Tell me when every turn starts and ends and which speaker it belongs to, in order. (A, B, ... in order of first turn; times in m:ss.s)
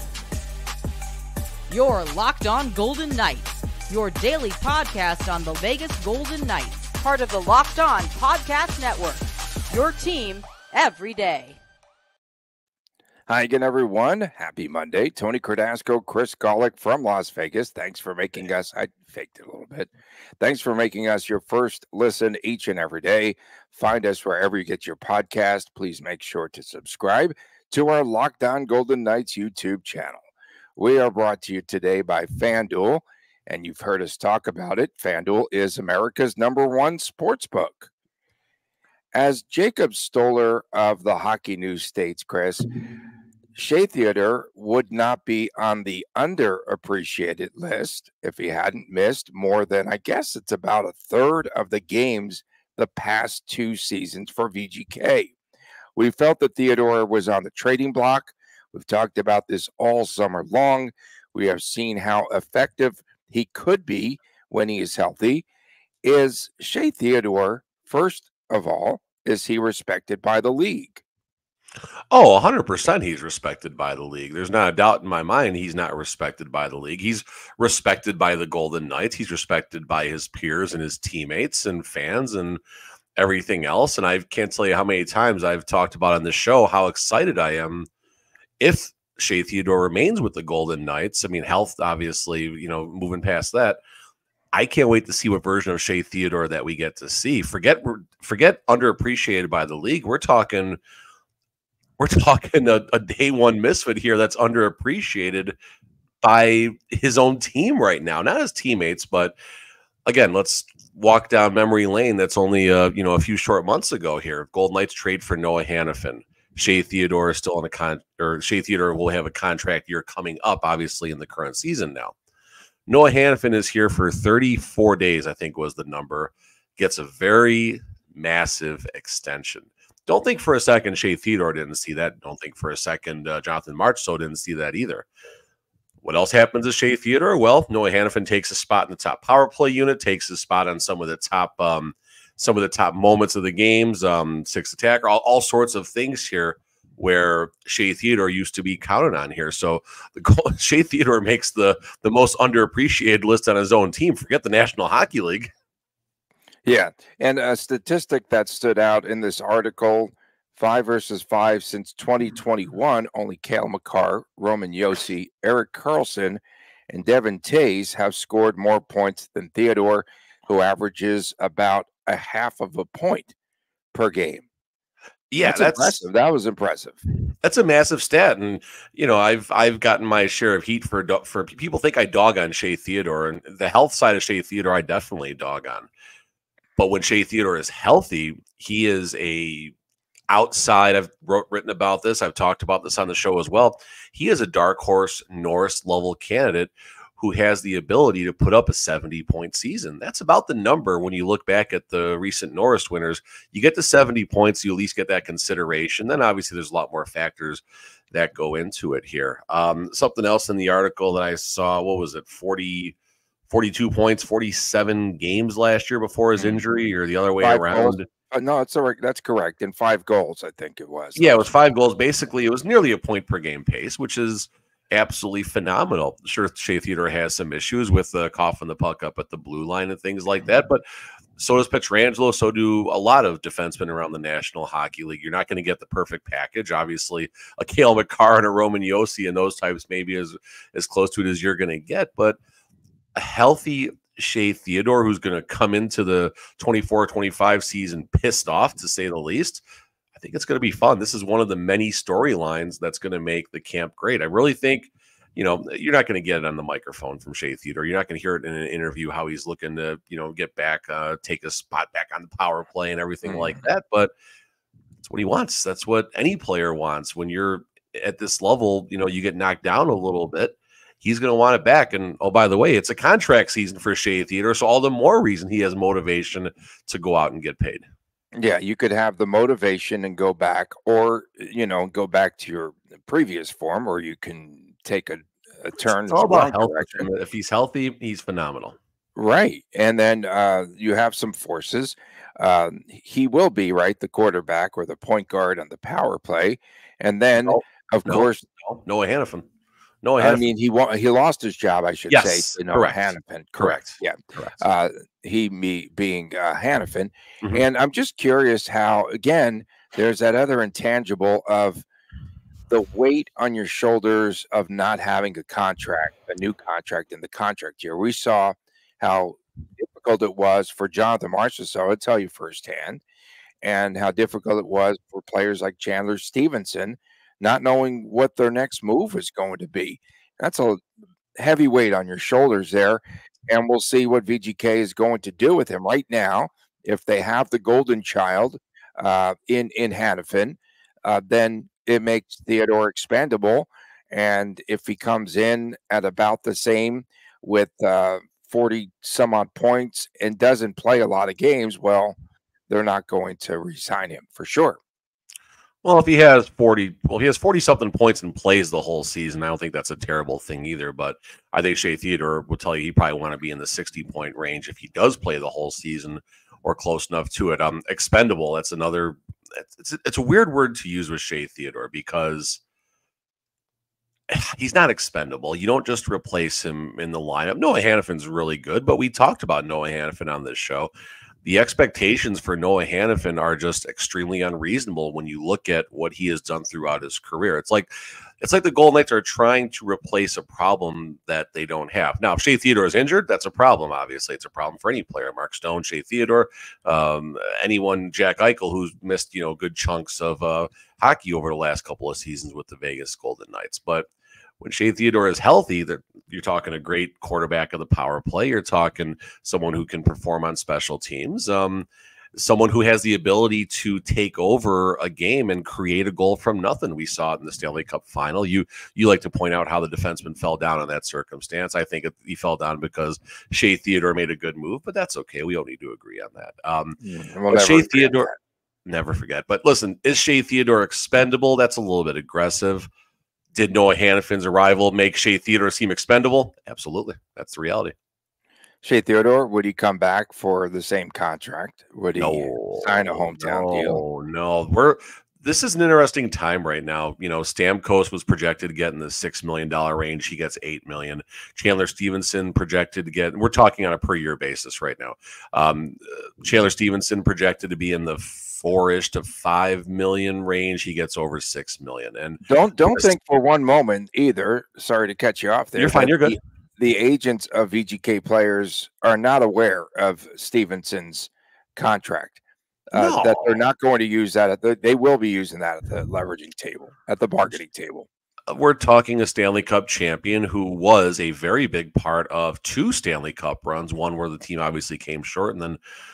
0:01.7-0:11.6 A
0:13.3-0:30.2 B
0:30.8-0:37.9 B
0:39.1-0:42.6 B
0:43.6-0:55.3 B
0:56.0-1:05.4 B
1:06.0-1:11.0 B
1:12.1-1:22.6 C
1:23.2-1:27.9 C
1:28.6-1:33.8 C
1:34.5-1:40.8 C
1:42.0-1:45.6 C
1:46.2-1:49.4 C
1:50.1-2:02.2 C
2:02.9-2:15.1 C
2:16.0-2:35.5 C
2:36.7-2:53.3 B
2:53.9-2:54.4 B
2:55.3-2:56.0 C
2:55.4-2:57.0 B
2:57.4-3:05.9 C
3:06.8-3:09.7 C
3:10.3-3:33.0 C
3:33.5-3:38.1 C
3:37.4-3:41.5 B
3:41.2-3:50.8 C
3:51.4-4:02.4 C
4:03.2-4:09.6 C
4:10.2-4:24.1 C
4:23.2-4:23.7 B
4:25.0-4:37.8 C
4:38.4-4:47.1 B
4:46.1-4:48.8 C
4:49.2-4:58.4 B
4:57.5-4:59.5 C
5:00.0-5:00.4 C
5:00.2-5:11.9 B
5:02.1-5:04.6 C
5:12.7-5:23.0 B
5:23.6-5:30.8 B
5:31.4-5:52.2 B
5:52.7-5:54.8 B
5:55.8-6:12.6 C
6:14.3-6:20.9 C
6:21.4-6:27.9 C
6:28.4-6:44.1 C
6:44.6-7:07.0 C
7:07.0-7:08.4 B
7:07.5-7:08.3 C
7:08.9-7:12.9 C
7:13.5-7:18.0 C
7:18.8-7:24.0 B
7:22.2-7:42.4 C
7:42.4-7:52.4 B
7:45.8-7:46.4 C
7:52.9-7:58.1 B
7:53.0-7:53.6 C
7:58.5-8:05.8 C